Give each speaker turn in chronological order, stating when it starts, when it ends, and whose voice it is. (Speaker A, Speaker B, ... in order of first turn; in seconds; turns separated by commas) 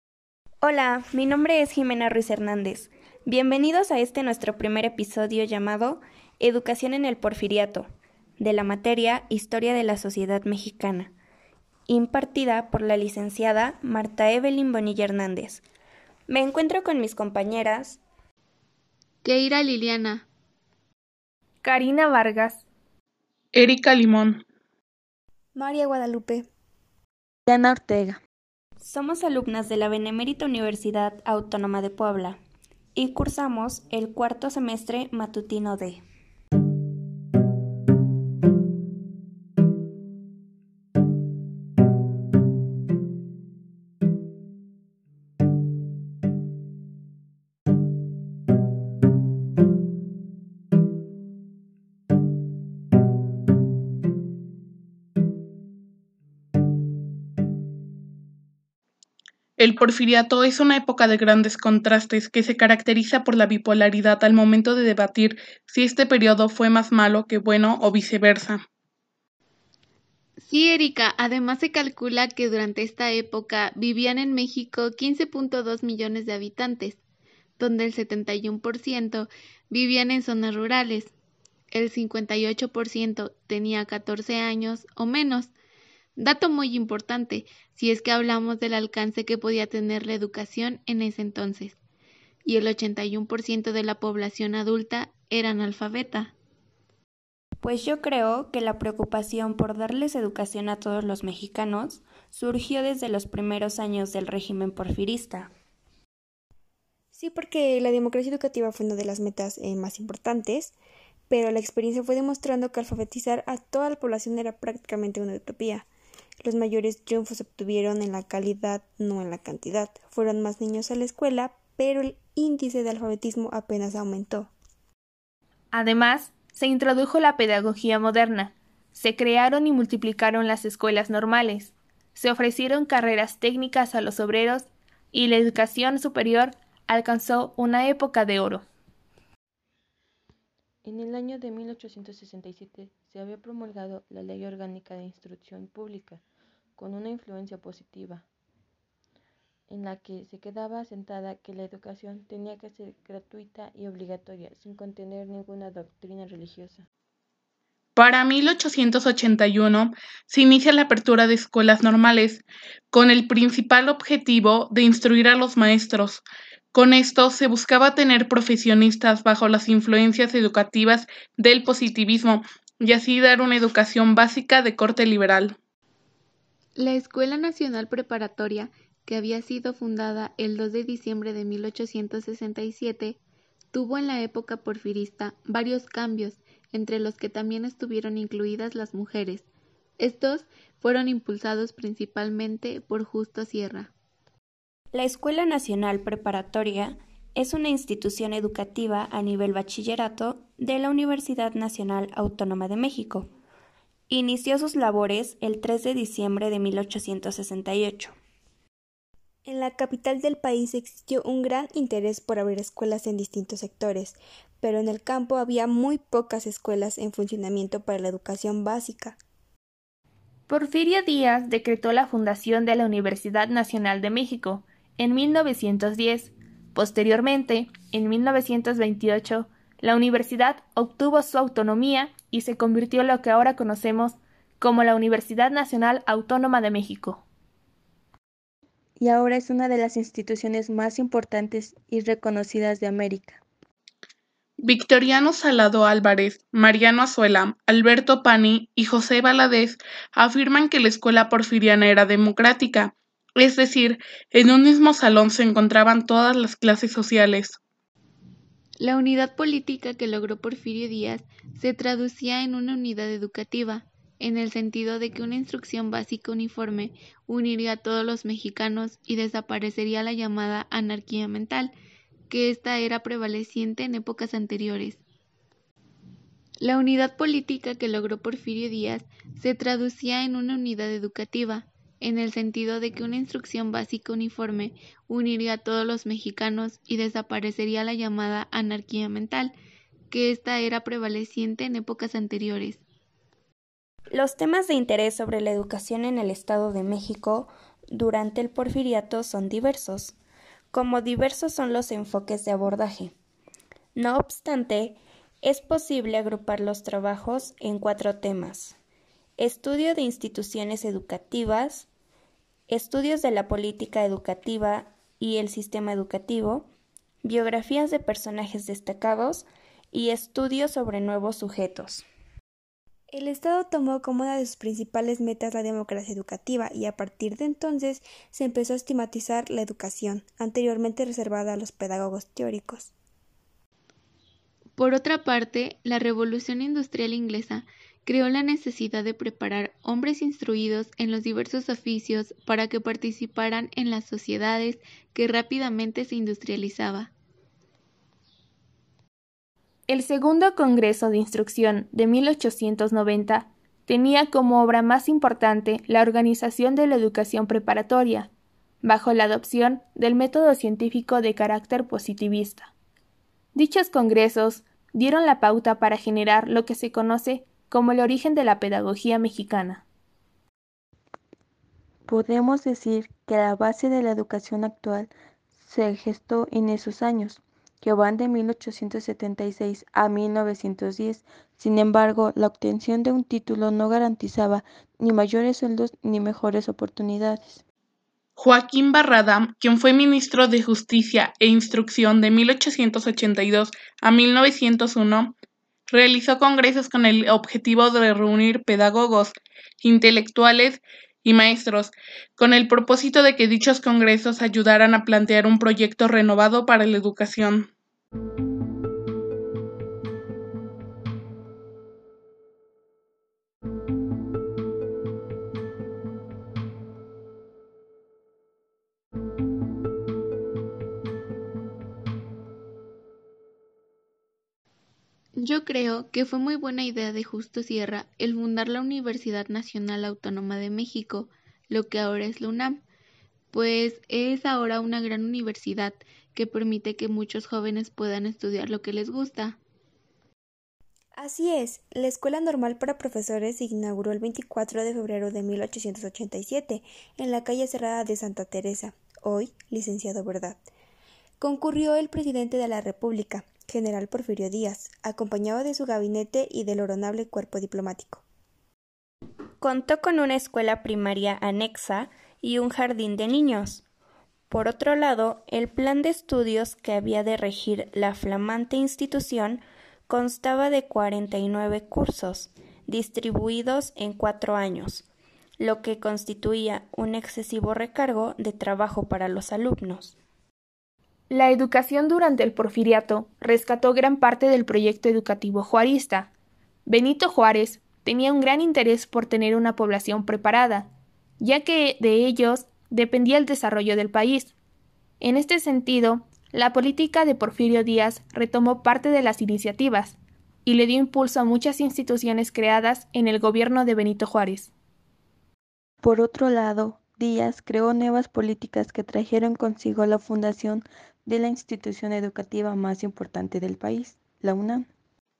Speaker A: 0.6-11.1, Speaker A: 11.9-15.6, Speaker A: 16.3-18.0, Speaker B: 19.2-20.2, Speaker C: 21.6-22.6, Speaker D: 23.5-24.4, Speaker E: 25.6-26.5, Speaker F: 27.5-28.2, Speaker A: 28.8-32.4, Speaker A: 32.9-36.0, Speaker D: 59.6-68.6, Speaker B: 70.4-77.0, Speaker B: 77.6-81.1, Speaker B: 81.7-85.5, Speaker B: 86.2-91.8, Speaker B: 92.4-96.3, Speaker A: 97.6-105.5, Speaker E: 107.1-110.7, Speaker E: 111.3-115.9, Speaker E: 116.4-124.5, Speaker C: 125.7-138.6, Speaker F: 140.8-146.2, Speaker F: 146.8-148.2, Speaker F: 149.7-156.8, Speaker D: 157.9-175.6, Speaker B: 176.8-183.2, Speaker B: 183.7-189.5, Speaker B: 190.0-193.9, Speaker A: 194.9-203.3, Speaker A: 204.1-208.1, Speaker E: 209.4-219.2, Speaker C: 220.5-237.2, Speaker F: 239.0-243.4, Speaker D: 244.6-257.6, Speaker B: 258.8-271.7, Speaker B: 272.3-275.0, Speaker B: 276.6-289.5, Speaker B: 290.1-292.8, Speaker A: 294.1-300.1, Speaker A: 300.7-303.1, Speaker A: 303.9-308.8, Speaker A: 309.4-311.9, Speaker A: 312.7-316.7, Speaker A: 317.2-322.1, Speaker E: 323.1-332.9, Speaker B: 334.8-347.1, Speaker C: 349.9-358.3, Speaker C: 358.8-362.7, Speaker C: 363.5-369.8, Speaker F: 372.1-387.6, Speaker D: 388.4-395.3, Speaker D: 395.9-407.7, Speaker B: 425.4-432.8, Speaker B: 433.5-439.6, Speaker E: 441.2-450.6, Speaker E: 451.4-458.2, Speaker A: 459.6-463.8, Speaker A: 464.5-475.1, Speaker A: 475.6-480.1, Speaker C: 481.3-486.3, Speaker C: 486.9-494.5, Speaker C: 495.2-504.7, Speaker F: 506.0-514.9